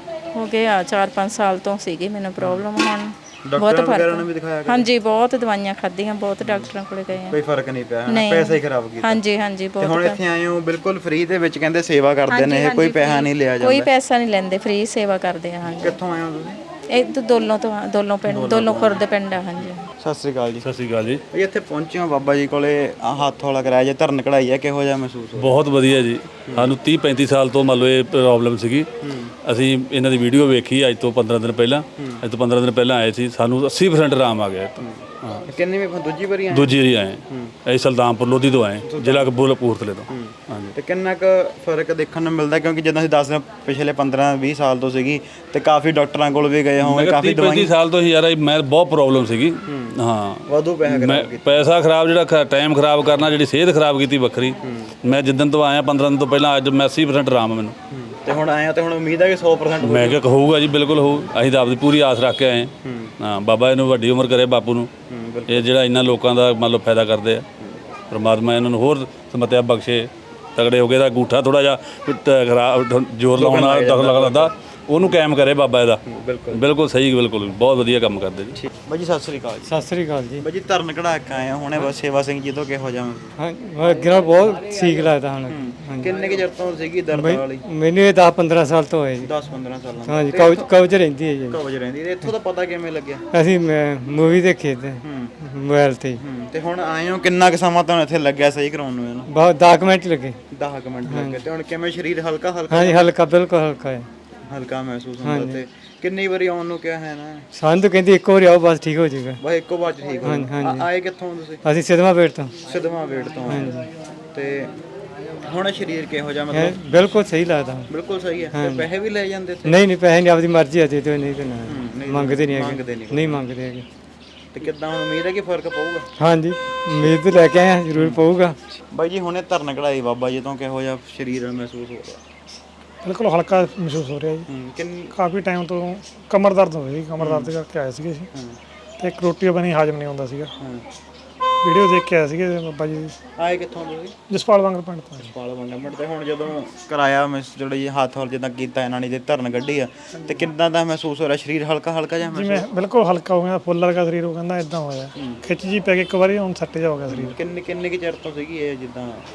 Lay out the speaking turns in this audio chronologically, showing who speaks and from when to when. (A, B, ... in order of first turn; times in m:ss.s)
0:00.4-0:07.4 A
0:02.4-0:02.6 B
0:03.5-0:04.9 B
0:06.4-0:09.2 B
0:08.1-0:10.2 A
0:09.8-0:13.9 B
0:12.3-0:16.0 A
0:15.7-0:16.6 B
0:16.9-0:19.9 A
0:18.3-0:19.1 B
0:19.6-0:20.7 B
0:20.6-0:21.2 C
0:21.3-0:25.6 B
0:25.4-0:28.9 C
0:26.5-0:26.7 B
0:29.0-0:29.3 B
0:29.5-0:35.5 C
0:34.8-0:36.8 B
0:36.5-0:40.7 C
0:38.8-0:39.3 B
0:40.1-0:47.7 B
0:46.8-0:57.8 C
0:49.7-0:50.0 B
0:50.5-0:51.7 B
0:54.6-0:54.9 B
0:57.9-1:00.3 B
0:59.8-1:04.9 C
1:02.8-1:03.1 B
1:05.1-1:05.7 B
1:05.5-1:07.4 C
1:08.1-1:18.6 C
1:13.4-1:14.5 B
1:16.1-1:16.6 B
1:18.6-1:19.8 B
1:19.6-1:20.4 D
1:20.4-1:23.3 B
1:23.4-1:26.2 D
1:25.5-1:27.7 B
1:27.1-1:29.3 D
1:29.2-1:30.7 B
1:30.1-1:31.6 D
1:31.5-1:33.2 B
1:33.3-1:36.2 D
1:35.0-1:35.3 B
1:36.2-1:39.3 B
1:39.3-1:40.4 D
1:40.5-1:43.2 B
1:41.1-1:41.4 D
1:42.7-1:44.1 D
1:44.5-1:47.4 B
1:45.2-1:45.6 D
1:47.5-1:49.4 D
1:49.4-1:51.6 B
1:50.2-1:50.9 D
1:51.6-1:52.5 D
1:52.6-1:53.7 B
1:53.4-1:53.9 D
1:54.3-1:54.7 B
1:55.4-1:57.2 B
1:56.5-1:57.9 D
1:57.9-1:59.8 B
1:58.5-1:58.9 D
1:59.6-2:03.9 D
2:01.6-2:03.4 B
2:04.5-2:06.1 B
2:06.2-2:08.6 D
2:07.9-2:08.3 B
2:08.8-2:12.2 B
2:13.0-2:14.5 E
2:14.5-2:15.1 B
2:15.1-2:18.3 E
2:17.2-2:17.5 B
2:19.0-2:20.5 E
2:20.6-2:20.8 B
2:21.6-2:23.2 E
2:23.4-2:24.2 B
2:24.3-2:25.3 E
2:25.2-2:32.7 B
2:32.3-2:37.4 E
2:37.1-2:39.3 B